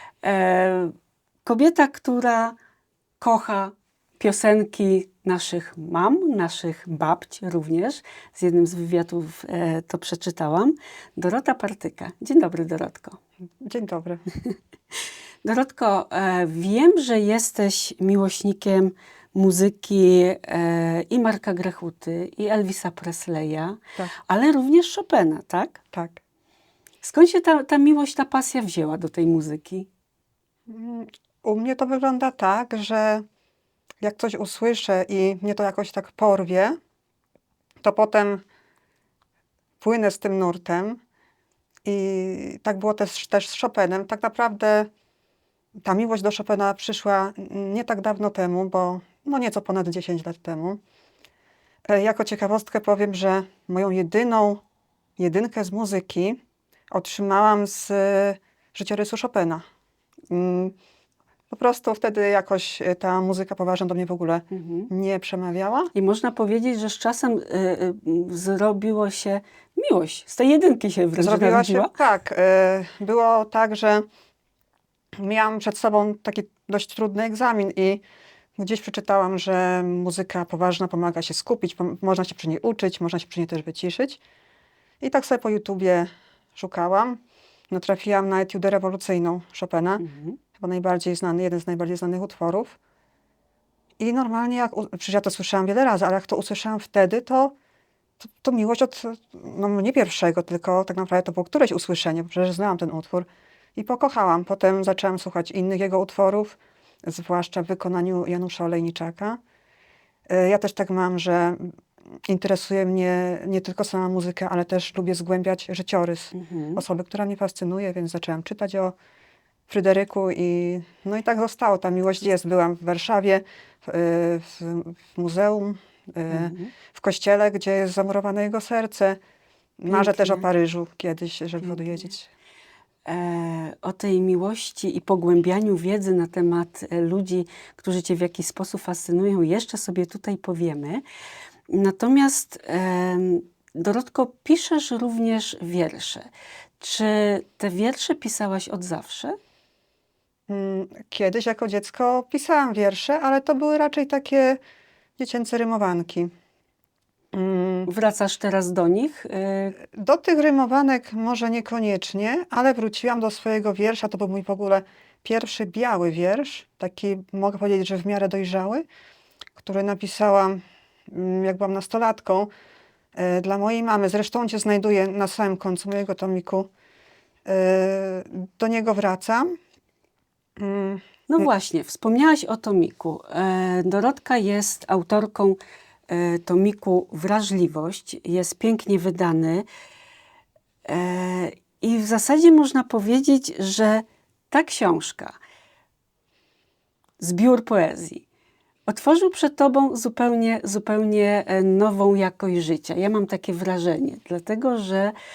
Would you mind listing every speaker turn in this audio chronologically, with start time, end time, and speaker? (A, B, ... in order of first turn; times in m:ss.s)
0:00.2-0:00.9 A
0:01.4-0:02.5 A
0:03.2-0:13.2 A
0:13.6-0:14.2 B
0:15.4-0:25.8 A
0:25.9-0:26.2 B
0:27.0-0:29.9 A
0:30.7-0:33.2 B
0:34.0-0:36.8 B
0:37.8-0:38.4 B
0:39.8-0:41.0 B
0:41.8-0:44.9 B
0:45.8-0:50.8 B
0:51.9-0:54.6 B
0:55.2-0:56.4 B
0:56.9-0:59.6 B
1:00.3-1:00.7 B
1:01.5-1:05.9 B
1:04.5-1:04.9 A
1:05.9-1:11.9 A
1:11.2-1:14.0 B
1:15.2-1:18.0 B
1:18.6-1:24.2 B
1:25.0-1:27.2 B
1:27.7-1:30.0 B
1:30.0-1:30.4 A
1:30.6-1:32.8 B
1:34.0-1:37.5 B
1:38.2-1:49.4 B
1:50.3-1:51.7 B
1:52.3-1:58.9 B
1:56.3-1:56.8 A
1:59.7-2:09.2 B
2:06.3-2:06.7 A
2:09.8-2:12.3 B
2:09.9-2:10.4 A
2:13.0-2:21.0 A
2:21.7-2:26.2 A
2:26.8-2:29.4 A
2:30.5-2:34.6 B
2:35.2-2:36.3 B
2:37.3-2:37.9 B
2:37.9-2:39.8 A
2:39.8-2:48.8 B
2:49.6-2:52.5 B
2:53.1-2:56.7 B
2:57.4-2:59.5 B
3:00.6-3:01.5 B
3:01.3-3:09.7 A
3:10.9-3:15.4 A
3:17.2-3:18.2 A
3:18.9-3:25.1 A